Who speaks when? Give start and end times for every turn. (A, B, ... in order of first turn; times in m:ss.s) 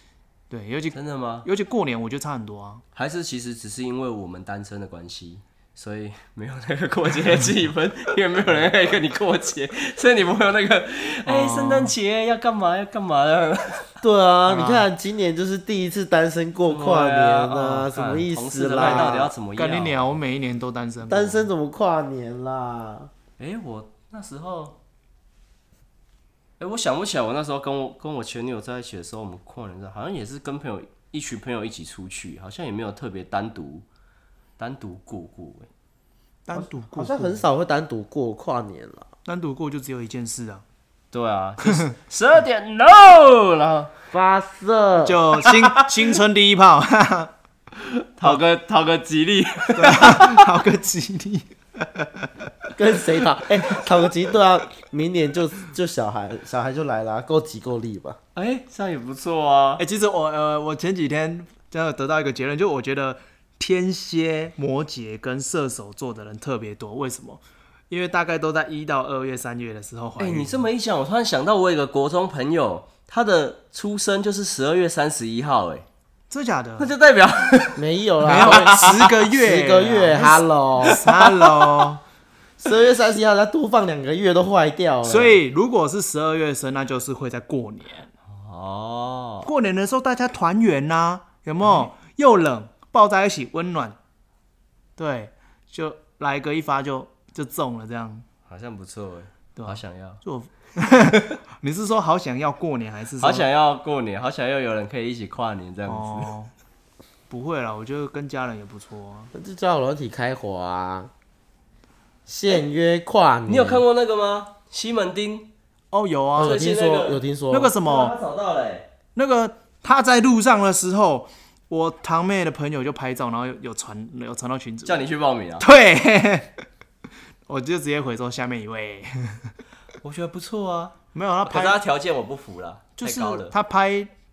0:00.5-0:02.8 A
0:00.9-0:01.5 B
0:02.9-0:13.9 B
0:11.2-0:11.9 A
0:14.0-0:19.3 C
0:14.5-0:14.8 A
0:16.7-0:20.2 B
0:18.8-0:21.5 A
0:21.0-0:23.1 C
0:23.4-0:24.8 B
0:26.6-0:33.8 B
0:34.6-0:35.7 B
0:36.4-0:37.4 A
0:36.5-0:39.1 C
0:39.2-0:40.6 A
0:41.1-0:43.9 B
0:44.1-0:45.2 C
0:45.0-0:47.3 A
0:45.4-0:45.8 B
0:47.8-0:50.4 B
0:49.7-0:52.5 A
0:52.8-0:58.2 C
0:58.3-0:59.8 B
0:59.8-1:10.6 A
1:10.2-1:15.8 B
1:16.3-1:16.9 A
1:16.8-1:19.1 B
1:17.8-1:21.0 C
1:18.2-1:22.0 A
1:22.6-1:25.4 C
1:25.0-1:28.1 A
1:28.3-1:29.5 B
1:29.4-1:34.0 A
1:31.6-1:31.9 B
1:35.0-1:38.2 A
1:38.5-1:40.2 B
1:39.6-1:43.5 A
1:43.2-1:46.3 B
1:45.8-1:46.5 A
1:47.3-1:49.3 A
1:49.3-1:51.1 C
1:52.3-1:53.8 C
1:53.5-1:55.5 B
1:55.9-1:56.6 A
1:56.4-1:57.8 C
1:56.4-1:57.2 B
1:57.5-1:58.2 A
1:57.8-1:58.9 B
1:59.2-2:05.0 A
2:04.8-2:05.6 B
2:05.6-2:06.6 A
2:07.5-2:09.5 A
2:10.0-2:13.5 B
2:11.1-2:11.8 A
2:13.0-2:14.1 A